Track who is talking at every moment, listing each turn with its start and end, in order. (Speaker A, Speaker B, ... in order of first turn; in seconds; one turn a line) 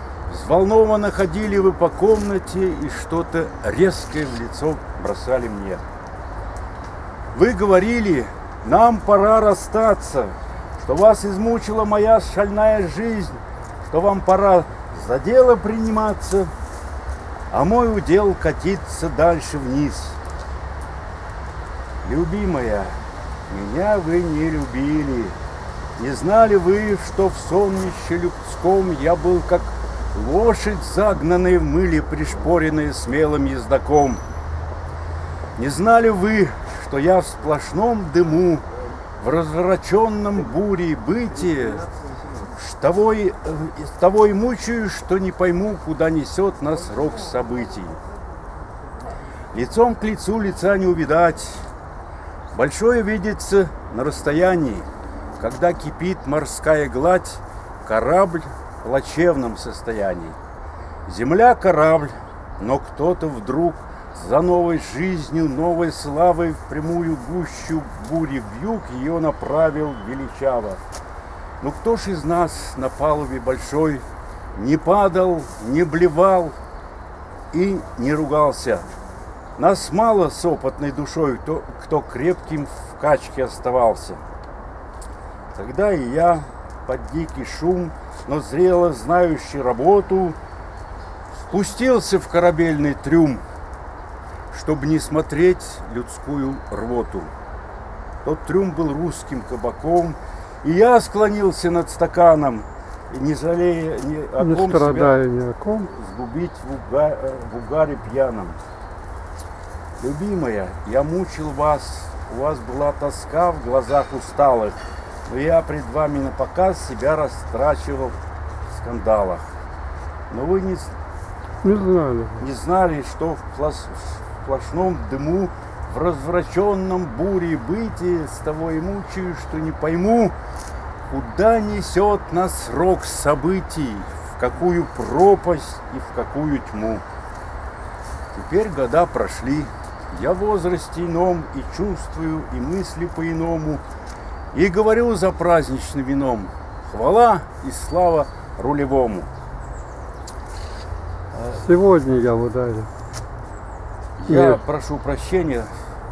Speaker A: 0.3-5.8
Speaker A: 7.3-16.5
Speaker A: 17.5-20.2
Speaker A: 22.0-25.4
Speaker A: 26.0-34.2
Speaker A: 35.5-38.6
Speaker A: 39.2-41.9
Speaker A: 42.5-48.0
Speaker A: 49.5-51.6
Speaker A: 52.5-54.9
Speaker A: 55.4-60.4
Speaker A: 61.0-70.8
Speaker A: 71.6-76.5
Speaker A: 77.5-78.8
Speaker A: 79.6-84.2
Speaker A: 85.5-90.4
Speaker A: 91.4-93.4
Speaker A: 94.5-97.3
Speaker A: 98.2-105.2
Speaker B: 104.4-105.9
Speaker A: 105.7-108.6
Speaker A: 110.0-118.2
Speaker A: 118.7-119.5
Speaker A: 120.3-120.9
Speaker B: 121.6-122.4
Speaker A: 122.4-130.3
Speaker A: 131.1-137.0
Speaker A: 138.3-143.8
Speaker A: 144.5-149.3
Speaker A: 151.3-151.7
Speaker B: 151.6-152.9
Speaker A: 154.2-155.7
Speaker B: 154.3-154.6